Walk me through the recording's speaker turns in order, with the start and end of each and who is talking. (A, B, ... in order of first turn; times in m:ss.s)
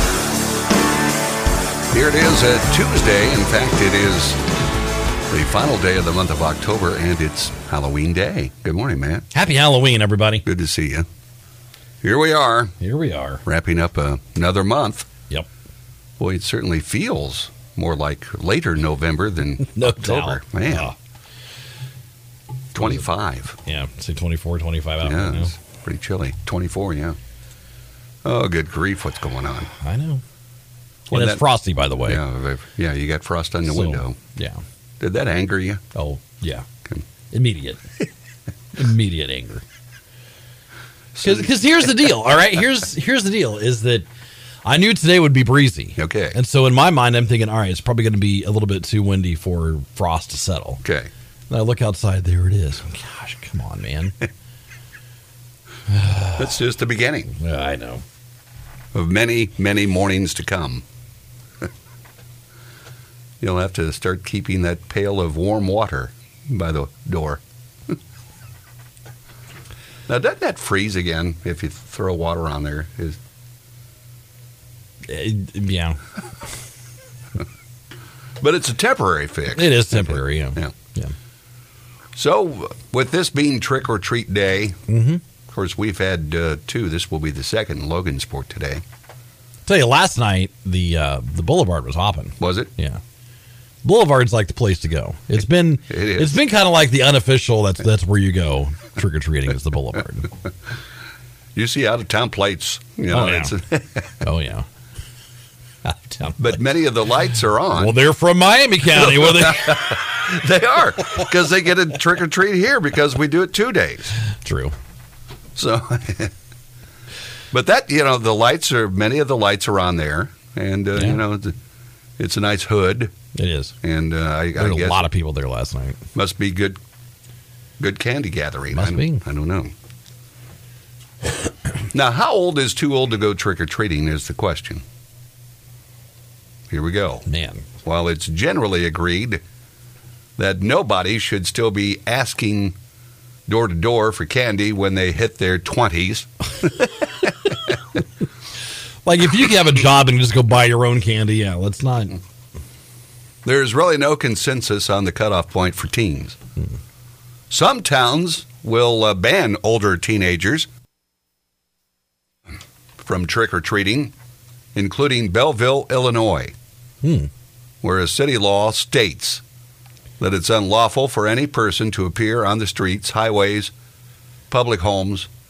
0:01.9-0:04.4 A
0:05.3-0:09.2 A
0:09.3-0:10.4 B
0:10.4-0:11.0 A
0:12.0-0:12.8 A
0:12.8-0:13.4 B
0:13.4-0:15.1 A
0:16.2-0:20.9 A
0:19.6-0:20.9 B
0:22.7-0:23.6 A
0:22.8-0:23.0 B
0:23.6-0:25.5 B
0:25.0-0:27.2 A
0:28.2-0:29.7 A
0:29.8-0:30.2 B
0:31.1-0:31.4 A
0:31.1-0:32.2 B
0:32.0-0:34.2 A
0:33.6-0:34.6 B
0:35.0-0:35.8 A
0:35.9-0:36.7 B
0:37.3-0:37.8 B
0:38.7-0:39.6 B
0:41.1-0:41.5 A
0:41.2-0:44.0 B
0:44.6-0:50.8 B
0:46.0-0:46.4 A
0:50.8-0:51.1 A
0:51.5-0:54.2 B
0:55.9-0:56.5 B
0:56.4-0:57.3 A
0:57.3-0:58.0 B
0:58.9-1:00.8 A
1:03.4-1:08.0 A
1:10.1-1:13.2 A
1:15.0-1:16.0 B
1:18.4-1:20.7 A
1:19.5-1:21.1 B
1:22.1-1:24.8 A
1:24.9-1:25.2 B
1:25.5-1:28.8 A
1:29.6-1:33.0 B
1:32.4-1:32.7 A
1:33.8-1:40.3 B
1:35.9-1:36.4 A
1:41.5-1:44.2 A
1:43.1-1:43.5 B
1:44.2-1:44.6 B
1:45.8-1:46.6 B
1:46.4-1:48.0 A
1:47.7-1:50.0 B
1:48.9-1:54.1 A
1:54.4-1:54.7 B
1:55.6-1:56.3 A
1:57.5-2:01.6 A
2:02.2-2:03.1 A
2:03.3-2:03.7 B
2:03.8-2:05.0 A
2:04.6-2:06.0 B
2:06.1-2:06.8 A
2:07.8-2:09.7 A
2:08.7-2:09.2 B
2:11.9-2:14.8 A
2:16.7-2:17.2 A
2:17.2-2:17.6 B
2:17.8-2:19.4 A
2:20.4-2:22.8 A
2:23.5-2:28.0 A
2:29.0-2:32.2 B
2:33.4-2:36.4 A
2:37.5-2:40.7 A
2:43.0-2:44.1 A
2:44.7-2:46.5 A
2:47.0-2:47.3 B
2:47.8-2:49.4 A
2:50.2-2:53.7 A
2:54.5-2:55.3 A